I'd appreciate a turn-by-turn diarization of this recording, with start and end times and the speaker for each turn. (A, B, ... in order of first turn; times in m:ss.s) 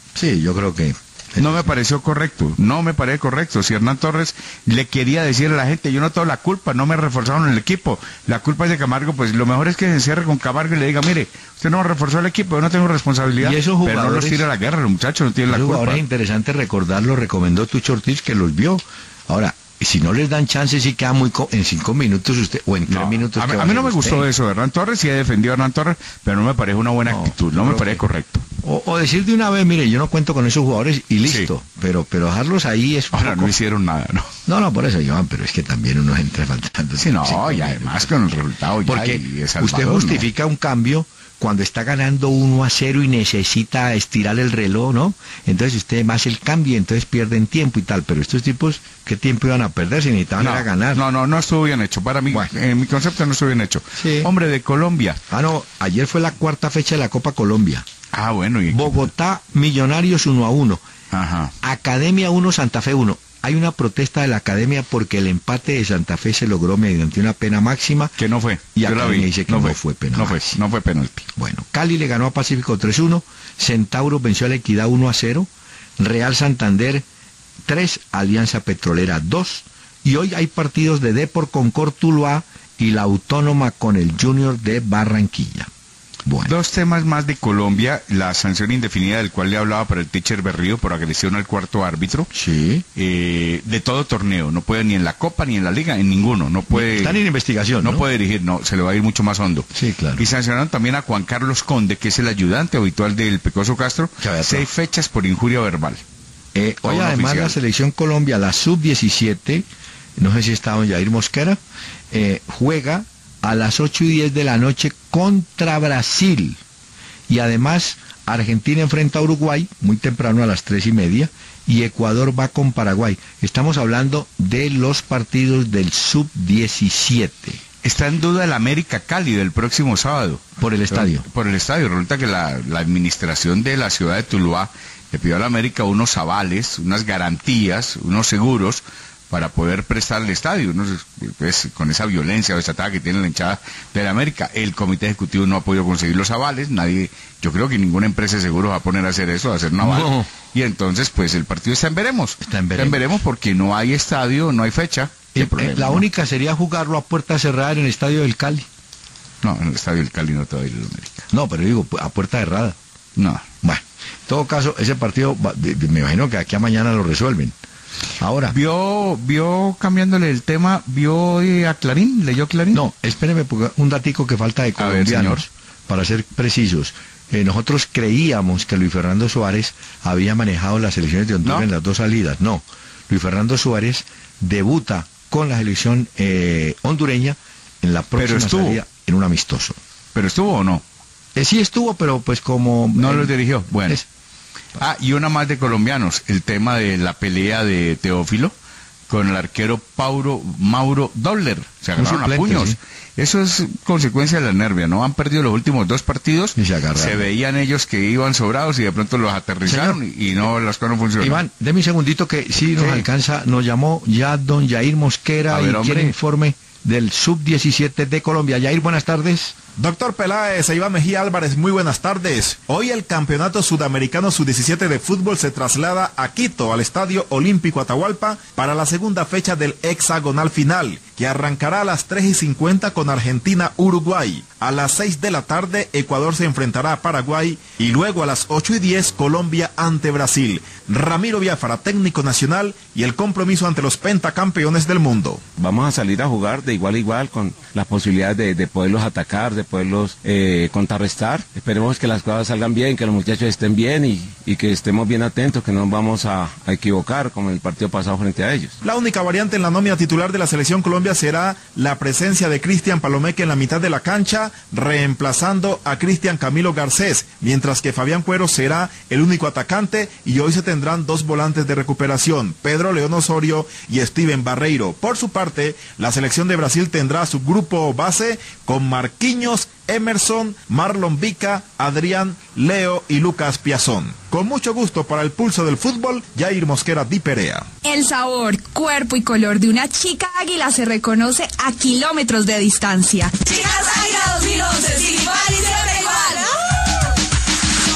0:00.1-0:01.8 A
0:01.4-0:16.0 B
0:13.4-0:14.4 A
0:15.5-0:24.3 A
0:22.9-0:28.4 B
0:27.0-0:28.0 A
0:28.6-0:33.6 A
0:33.1-0:34.3 B
0:34.4-0:38.2 A
0:37.0-0:40.2 B
0:38.8-0:51.0 A
0:50.4-0:55.2 B
0:54.0-0:54.3 A
0:55.3-0:57.8 A
0:58.1-0:59.1 B
0:58.7-1:00.8 A
1:01.1-1:01.5 B
1:01.6-1:08.1 A
1:08.2-1:11.3 B
1:08.8-1:10.6 A
1:11.4-1:17.0 A
1:17.6-1:25.7 A
1:26.2-1:26.5 A
1:26.4-1:32.3 B
1:32.3-1:32.8 A
1:33.0-1:37.2 B
1:36.7-1:38.0 A
1:37.8-1:46.0 B
1:39.7-1:40.3 A
1:44.2-1:44.7 A
1:46.5-1:49.6 A
1:46.8-1:47.6 B
1:50.2-1:51.6 A
1:52.1-1:56.6 A
1:57.3-2:07.6 A
2:07.8-2:36.0 B
2:10.6-2:11.2 A
2:29.8-2:30.3 A
2:32.4-2:33.0 A
2:35.3-2:38.7 A
2:39.4-2:41.2 B
2:41.3-2:42.8 A
2:43.2-2:43.4 B
2:43.6-2:47.5 A
2:48.2-2:48.5 A
2:48.5-2:52.8 B
2:52.7-3:09.8 A
2:54.8-2:55.4 B
3:08.2-3:08.8 B
3:10.1-3:10.8 B
3:11.3-3:13.3 A
3:13.0-3:14.0 B
3:14.8-3:18.5 B
3:19.1-3:31.4 B
3:22.0-3:22.8 A
3:26.6-3:27.3 A
3:29.6-3:30.0 A
3:31.2-3:39.6 A
3:32.8-3:33.0 B
3:35.5-3:36.1 B
3:39.8-4:05.4 C
4:05.6-4:18.8 D
4:18.8-4:47.7 C
4:47.8-4:56.5 E